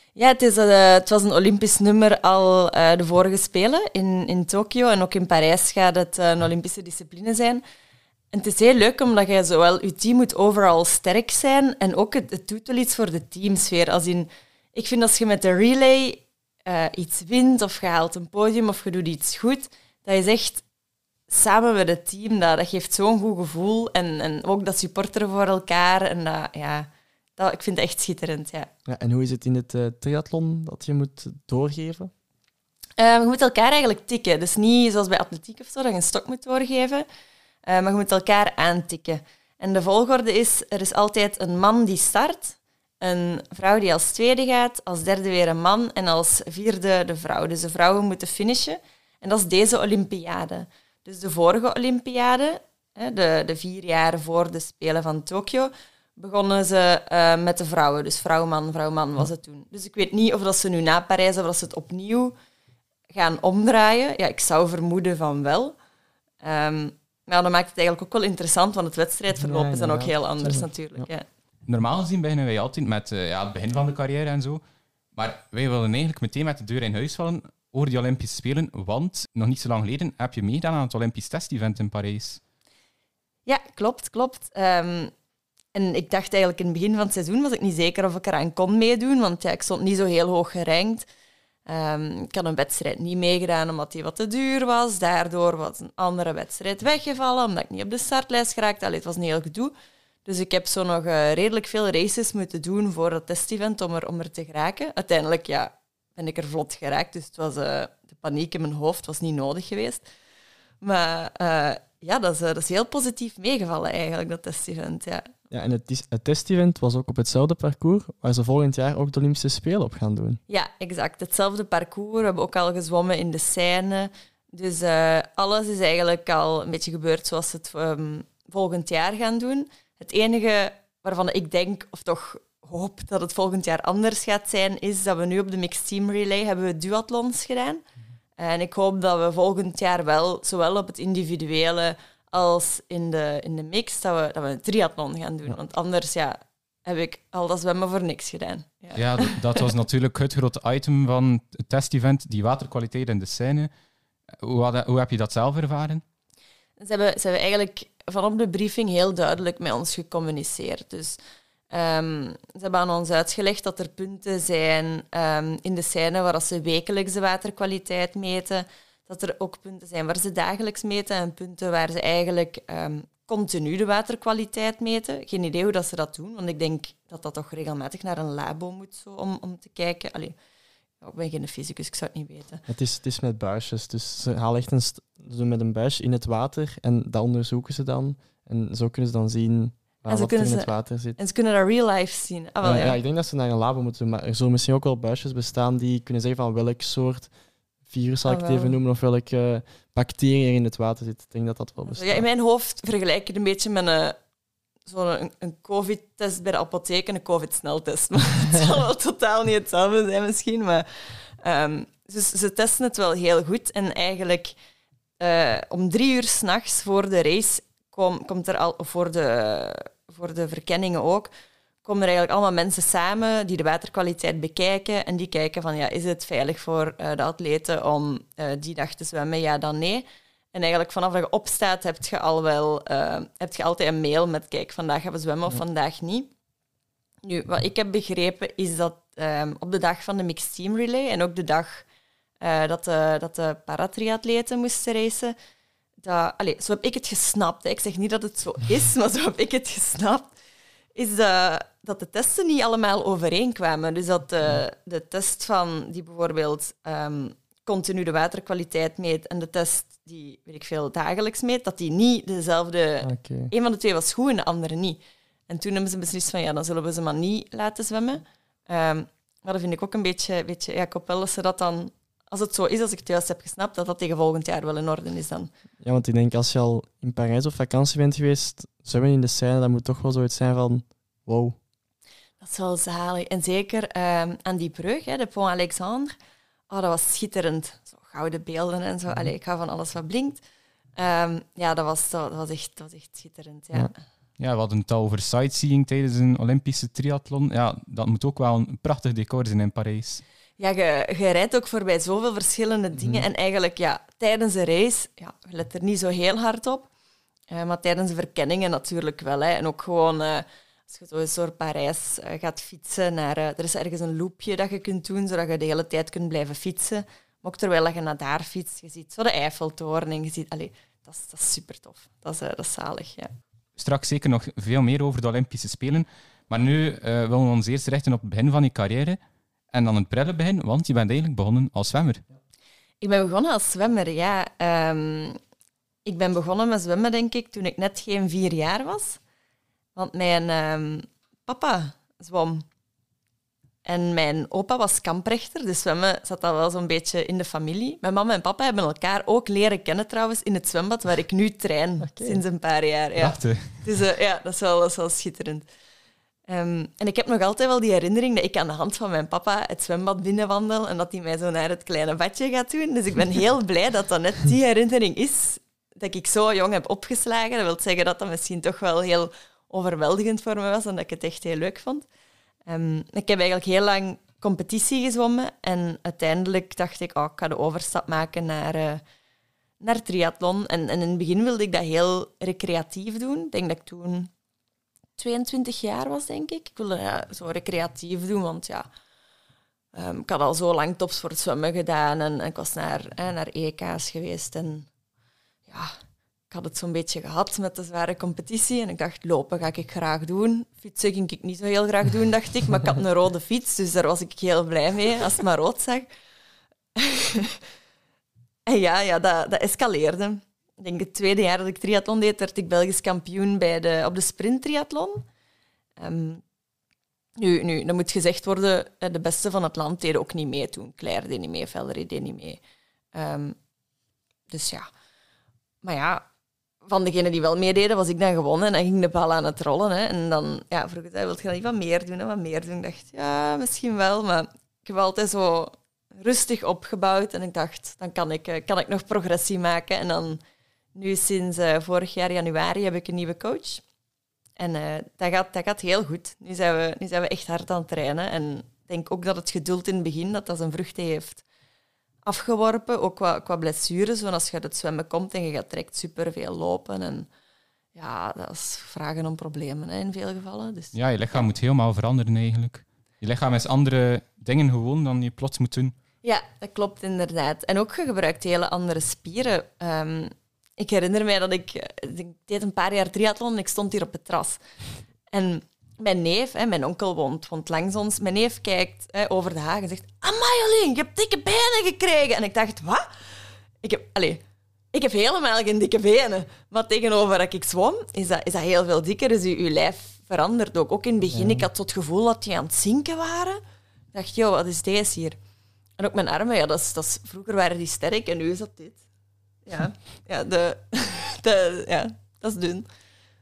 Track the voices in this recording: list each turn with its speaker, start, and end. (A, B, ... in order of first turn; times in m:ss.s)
0:00.2-0:07.6 A
0:08.3-0:20.6 A
0:21.3-0:28.7 A
0:28.9-0:32.1 B
0:33.0-0:37.0 A
0:37.6-1:02.3 A
1:03.1-1:05.7 A
1:06.4-1:11.2 A
1:09.4-1:11.1 B
1:11.7-1:14.6 C
1:15.2-1:22.4 C
1:23.4-1:25.1 A
1:25.7-1:31.0 A
1:31.6-1:39.7 A
1:40.2-1:50.0 A
1:50.8-1:55.3 A
1:55.5-2:00.4 B
2:00.5-2:17.8 A
2:18.4-2:29.6 A
2:29.0-2:33.7 C
2:34.4-2:36.0 C
2:36.8-2:41.2 A
2:41.7-3:00.3 A
3:01.0-3:02.6 A
3:02.7-3:11.2 B
3:10.1-3:13.0 A
3:12.6-3:17.3 B
3:17.9-3:22.2 B
3:18.2-3:18.8 A
3:21.9-3:24.2 A
3:24.8-3:30.8 A
3:31.4-3:34.5 A
3:35.2-3:41.3 A
3:41.8-3:56.3 A
3:57.2-4:01.8 A
4:02.4-4:05.3 A
4:06.0-4:10.3 A
4:10.9-4:35.5 A
4:23.0-4:23.5 B
4:35.8-4:41.6 B
4:42.4-4:46.1 A
4:46.7-4:50.4 A
4:51.0-4:54.0 A
4:54.4-5:00.2 C
5:00.6-5:06.9 A
5:07.5-5:23.3 A
5:23.8-5:29.2 C
5:29.7-5:32.2 C
5:33.0-5:35.4 A
5:36.0-5:39.2 A
5:39.9-5:42.6 A
5:43.8-5:55.6 A
5:52.0-5:52.4 B
5:53.2-5:53.8 C
5:56.5-6:12.0 A
6:12.6-6:19.0 A
6:19.8-6:24.3 A
6:25.2-6:28.8 A
6:29.9-6:34.9 A
6:35.7-6:35.9 A
6:36.5-6:46.1 A
6:47.0-6:47.6 A
6:48.7-6:55.2 A
6:56.0-6:56.4 A
6:57.4-7:02.6 A
7:03.1-7:03.6 A
7:04.5-7:04.9 A
7:05.8-7:06.2 A
7:06.8-7:20.4 A
7:20.9-7:23.8 A
7:24.6-7:31.4 A
7:32.2-7:37.3 A
7:38.0-7:40.9 A
7:40.9-7:45.9 C
7:46.2-7:54.6 A
7:55.3-8:03.1 A
8:03.8-8:04.4 A
8:04.9-8:13.6 A
8:11.3-8:11.6 B
8:14.1-8:15.4 A
8:16.0-8:19.0 A
8:19.6-8:22.8 A